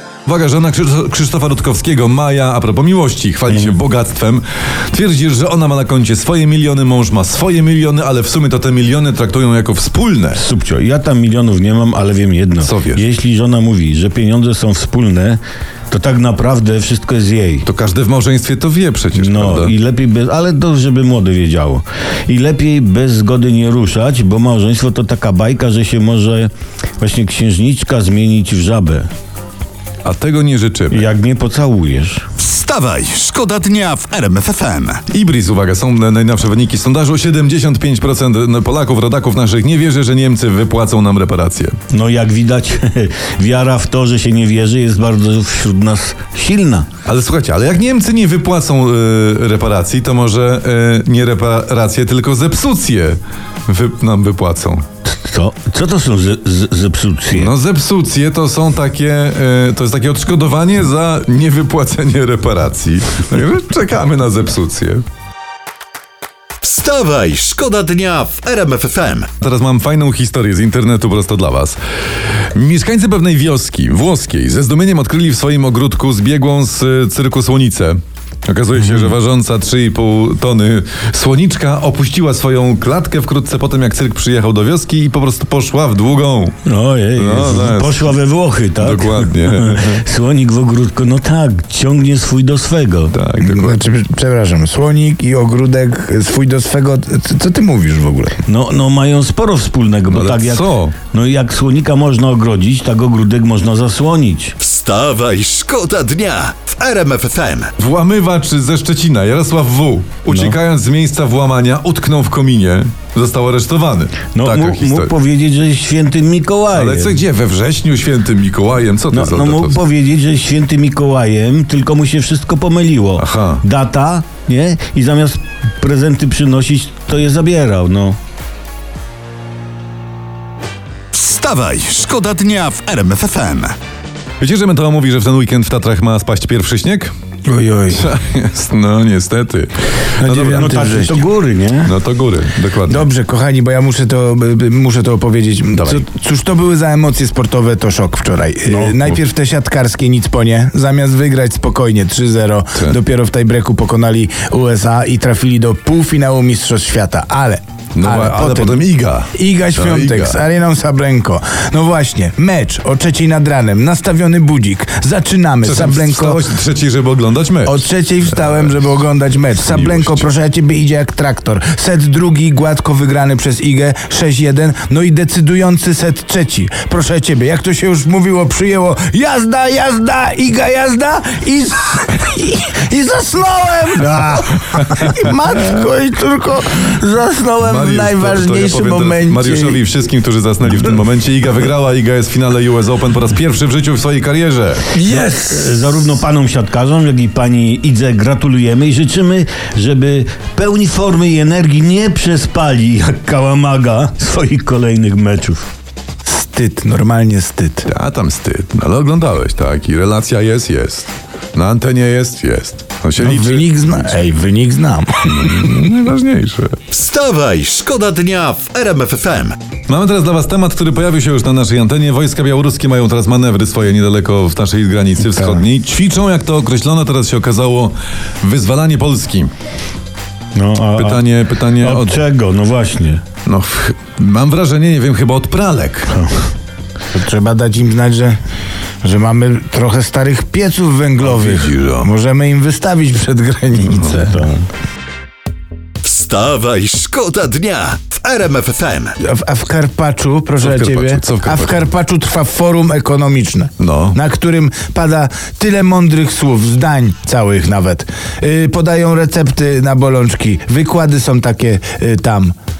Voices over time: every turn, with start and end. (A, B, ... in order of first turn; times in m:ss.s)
0:00.2-0:10.4 A
0:03.5-0:03.8 B
0:10.3-0:15.4 B
0:12.6-0:13.0 A
0:15.9-0:17.6 B
0:17.6-0:19.7 A
0:19.1-0:29.1 B
0:30.0-0:31.1 A
0:30.9-0:32.2 B
0:32.4-0:35.0 C
0:35.1-0:41.7 A
0:41.9-0:46.9 B
0:47.0-0:54.8 A
0:55.1-0:57.5 B
0:57.3-1:05.0 A
1:06.6-1:09.3 C
1:09.4-1:11.8 A
1:12.5-1:26.6 A
1:26.6-1:33.1 B
1:27.1-1:28.2 A
1:28.8-1:30.0 A
1:33.1-1:33.8 A
1:33.4-1:38.4 D
1:38.4-1:44.5 B
1:40.1-1:41.0 A
1:44.6-1:47.7 C
1:47.8-1:55.1 A
1:54.4-1:57.2 B
1:56.7-1:59.8 A
1:59.1-2:08.2 B
2:03.2-2:03.6 A
2:11.1-2:13.7 C
2:14.4-2:17.1 A
2:17.5-2:18.1 D
2:17.9-2:20.9 A
2:20.2-2:21.9 B
2:20.3-2:21.2 D
2:21.8-2:23.1 A
2:22.9-2:38.8 D
2:25.7-2:26.0 A
2:37.9-2:40.4 A
2:39.3-2:46.4 D
2:45.6-2:48.8 A
2:47.6-3:09.8 D
2:49.6-2:50.3 A
3:07.6-3:14.9 A
3:14.9-3:15.8 D
3:15.0-3:25.6 B
3:26.2-3:27.9 D
3:27.8-3:34.1 A
3:33.2-3:35.7 D
3:35.2-3:36.8 A
3:36.9-3:39.6 C
3:39.9-3:49.5 A
3:45.3-3:45.6 D
3:50.5-3:53.2 B
3:50.9-3:52.2 A
3:53.4-3:56.2 A
3:57.1-3:58.4 D
3:59.0-4:04.5 D
4:01.2-4:02.0 A
4:04.3-4:04.6 B
4:06.0-4:09.2 C
4:09.2-4:22.5 D
4:10.6-4:11.9 A
4:13.8-4:14.2 A